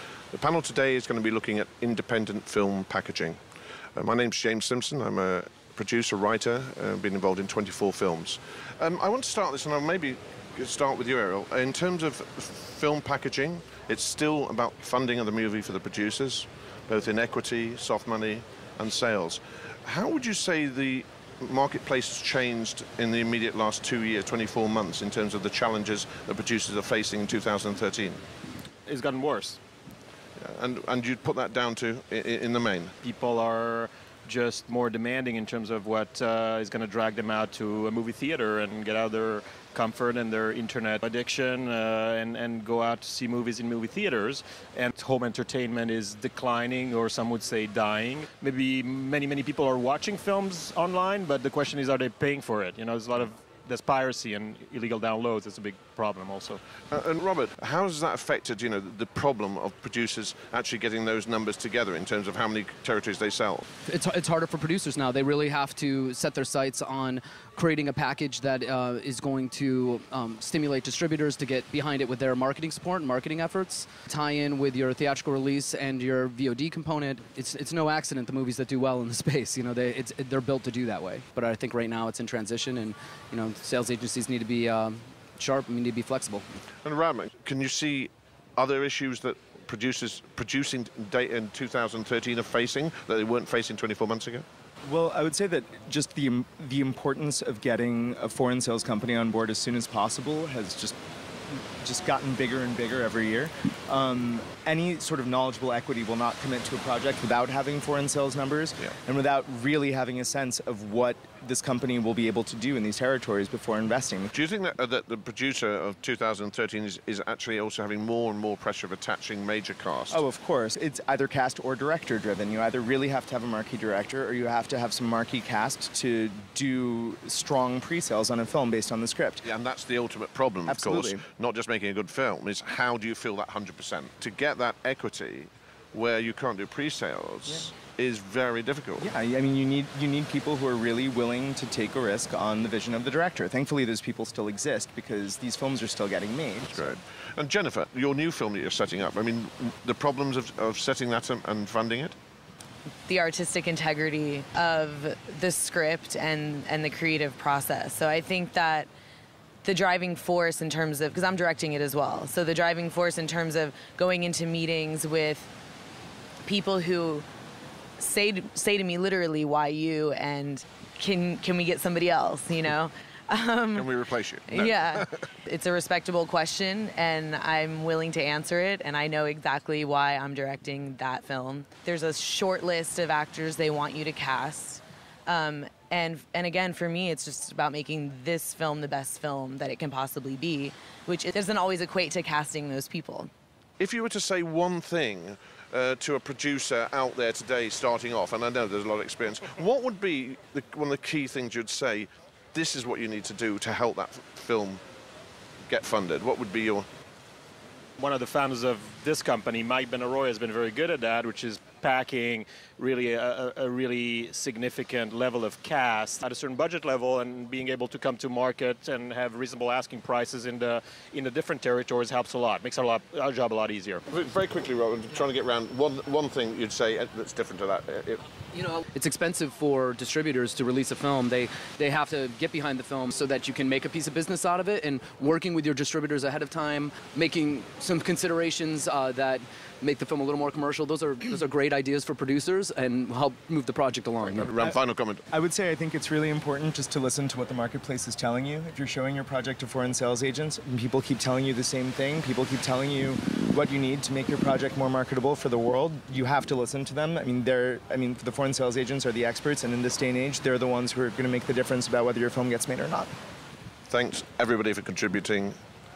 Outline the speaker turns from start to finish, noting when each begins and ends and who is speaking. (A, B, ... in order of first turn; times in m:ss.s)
0:00.3-0:03.4 A
0:04.0-0:28.2 A
0:28.9-0:29.6 B
0:30.4-0:32.9 A
0:33.0-0:56.6 B
0:56.9-1:03.6 A
1:03.8-1:26.4 C
1:26.8-1:34.4 A
1:34.8-1:41.0 D
1:41.5-1:54.3 D
1:54.3-2:00.2 A
2:00.1-2:09.4 D
2:09.4-2:19.1 A
2:10.7-2:11.2 D
2:19.0-2:27.0 D
2:26.7-2:32.2 A
2:33.1-2:38.9 E
2:39.6-2:45.5 E
2:46.4-2:47.2 E
2:48.0-3:13.3 E
2:53.7-2:55.1 A
3:13.8-3:24.8 A
3:25.7-3:26.9 A
3:28.0-3:44.0 B
3:44.1-3:48.2 A
3:48.5-4:04.5 C
4:04.3-4:05.2 A
4:05.3-4:23.1 D
4:23.9-4:25.6 A